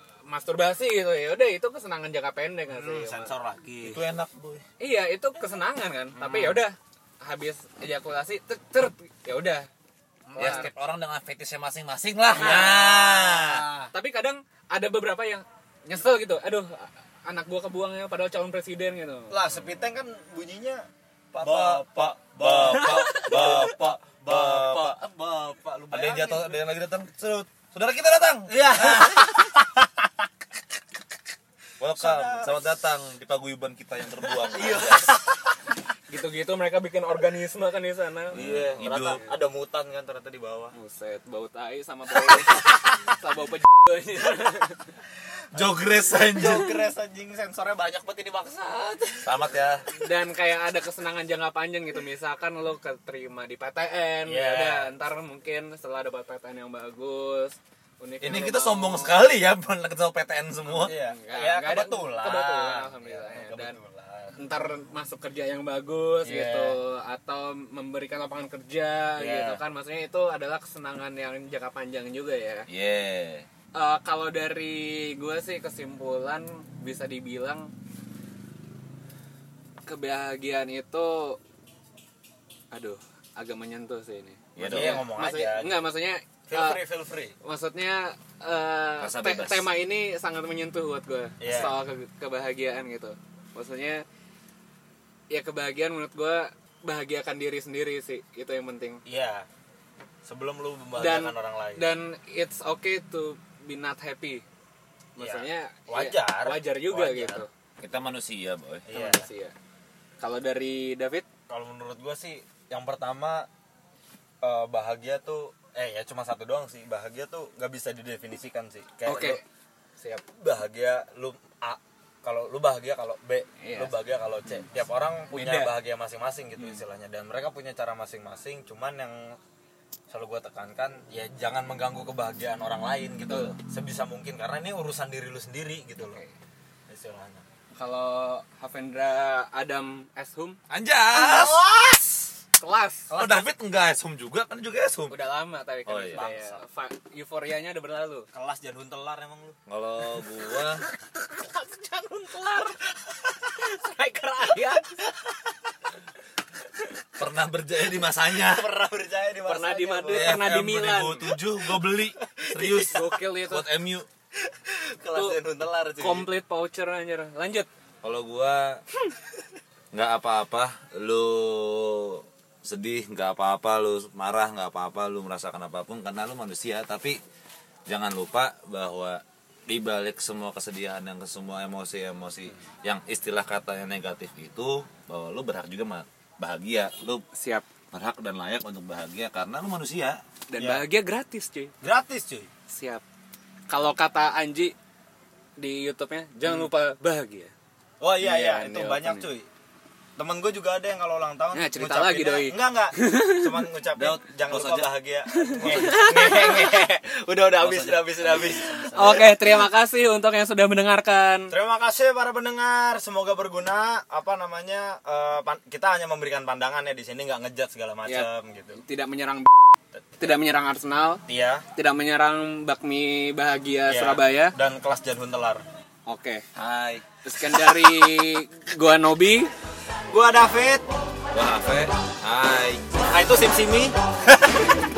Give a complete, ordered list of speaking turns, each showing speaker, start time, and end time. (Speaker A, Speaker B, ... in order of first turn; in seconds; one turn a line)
Speaker A: 0.3-3.3
Speaker B: 2.7-4.0
Speaker C: 3.8-4.6
Speaker A: 4.8-9.7
Speaker B: 6.2-6.6
Speaker B: 10.3-10.7
Speaker A: 10.3-10.7
Speaker C: 10.4-13.7
Speaker A: 12.4-12.8
Speaker B: 12.4-13.9
Speaker A: 13.9-19.4
Speaker B: 19.3-20.8
Speaker C: 21.3-25.0
Speaker B: 21.4-26.6
Speaker A: 22.7-23.6
Speaker C: 25.9-29.4
Speaker B: 28.5-29.9
Speaker C: 31.8-35.1
Speaker B: 31.9-32.6
Speaker B: 34.5-35.1
Speaker A: 34.6-35.2
Speaker A: 36.1-39.2
Speaker B: 38.3-40.7
Speaker C: 38.3-39.2
Speaker A: 40.7-44.9
Speaker C: 45.5-46.7
Speaker B: 45.5-49.4
Speaker C: 49.2-49.9
Speaker A: 49.9-59.1
Speaker B: 54.3-54.9
Speaker C: 58.2-60.9
Speaker A: 60.7-63.8
Speaker B: 60.8-64.4
Speaker A: 64.3-72.7
Speaker B: 66.2-66.8
Speaker B: 69.2-69.6
Speaker C: 72.7-73.5
Speaker A: 73.7-77.7
Speaker A: 79.8-81.4
Speaker A: 82.7-86.8
Speaker C: 84.5-85.0
Speaker B: 84.6-85.8
Speaker B: 86.5-87.3
Speaker A: 87.4-94.0
Speaker C: 89.0-89.7
Speaker B: 91.4-91.7
Speaker A: 95.3-99.0
Speaker B: 99.0-99.5
Speaker B: 100.2-101.8
Speaker A: 101.0-104.4
Speaker A: 105.2-107.5
Speaker B: 105.2-107.4
Speaker C: 107.8-108.8
Speaker B: 108.9-109.3
Speaker A: 108.9-109.5
Speaker A: 110.2-111.2
Speaker B: 111.5-113.5
Speaker B: 114.4-119.4
Speaker A: 119.0-119.4
Speaker B: 120.3-129.4
Speaker A: 123.6-123.9
Speaker A: 125.3-125.7
Speaker B: 130.1-136.2
Speaker A: 133.3-133.6
Speaker A: 136.0-136.3
Speaker B: 136.9-137.4
Speaker A: 137.7-140.6
Speaker C: 140.7-141.6
Speaker B: 141.2-142.3
Speaker A: 142.6-143.4
Speaker C: 143.1-145.1
Speaker A: 145.1-148.3
Speaker C: 145.8-146.2
Speaker B: 146.1-146.6
Speaker B: 148.3-149.6
Speaker C: 149.7-150.8
Speaker A: 151.1-152.8
Speaker A: 153.5-155.0
Speaker C: 157.2-158.7
Speaker B: 158.3-160.4
Speaker A: 159.4-161.3
Speaker C: 160.1-164.1
Speaker B: 162.2-163.2
Speaker A: 162.6-163.7
Speaker B: 164.4-166.3
Speaker A: 166.0-167.7
Speaker C: 168.0-168.8
Speaker C: 169.9-177.2
Speaker C: 177.9-187.2
Speaker A: 187.3-187.6
Speaker C: 187.9-190.2
Speaker A: 190.5-191.7
Speaker B: 190.6-190.8
Speaker B: 191.8-192.5
Speaker A: 192.7-193.0
Speaker A: 193.7-194.7
Speaker A: 195.6-197.5
Speaker B: 198.0-199.5
Speaker A: 198.2-199.3
Speaker B: 200.2-209.3
Speaker A: 201.5-203.6
Speaker C: 203.9-204.9
Speaker A: 205.3-206.9
Speaker C: 207.6-209.2
Speaker A: 208.9-211.5
Speaker B: 211.5-218.8
Speaker A: 218.1-219.5
Speaker A: 220.2-221.2
Speaker B: 221.3-221.7
Speaker A: 221.7-224.5
Speaker B: 223.9-225.6
Speaker A: 226.1-226.4
Speaker C: 226.6-227.1
Speaker A: 227.2-229.5
Speaker B: 230.1-230.8
Speaker C: 231.3-232.8
Speaker B: 233.1-233.9